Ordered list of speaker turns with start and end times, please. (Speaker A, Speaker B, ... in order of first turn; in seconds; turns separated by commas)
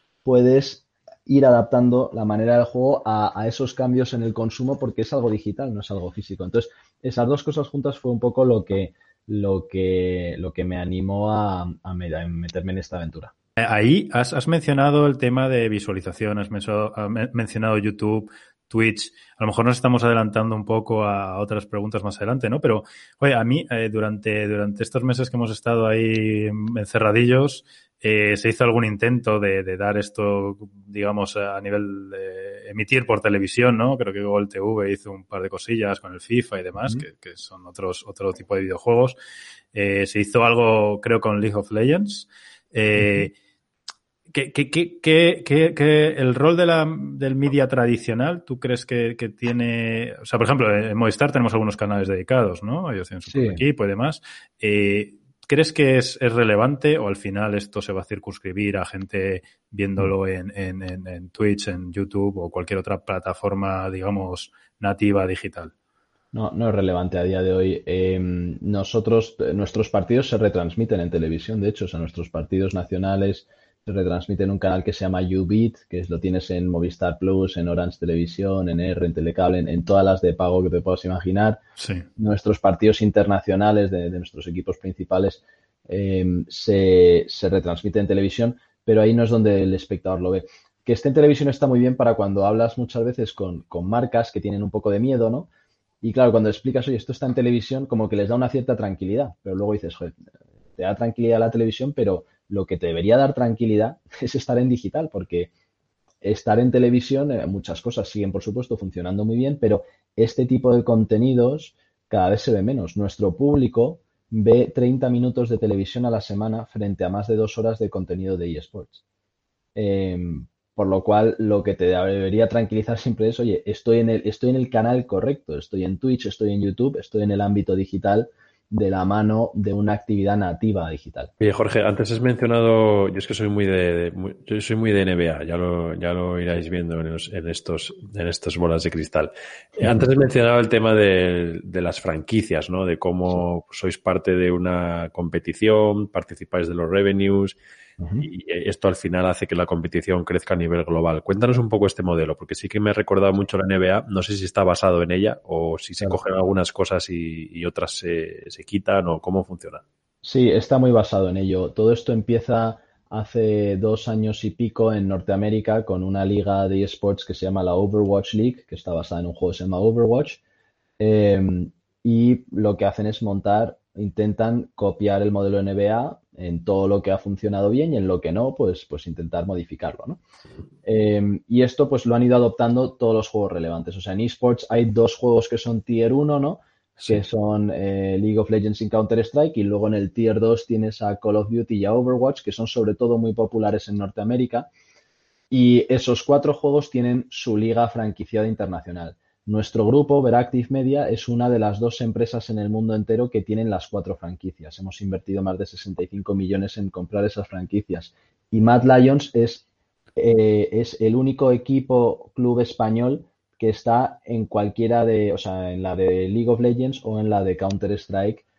Speaker A: 0.2-13.3, Speaker B: 13.6-39.2, Speaker B: 39.7-43.3, Speaker B: 44.3-65.7, Speaker A: 53.3-53.6, Speaker A: 66.3-81.6, Speaker B: 81.8-82.1, Speaker A: 82.2-95.5, Speaker A: 96.0-100.2, Speaker A: 100.8-105.5, Speaker A: 106.2-119.0, Speaker A: 119.8-131.3, Speaker C: 131.4-147.6, Speaker A: 148.0-148.3, Speaker C: 148.2-159.8, Speaker A: 160.2-170.4, Speaker A: 171.0-180.2, Speaker A: 180.8-194.7, Speaker C: 187.0-187.2, Speaker A: 195.5-209.7, Speaker A: 210.2-218.4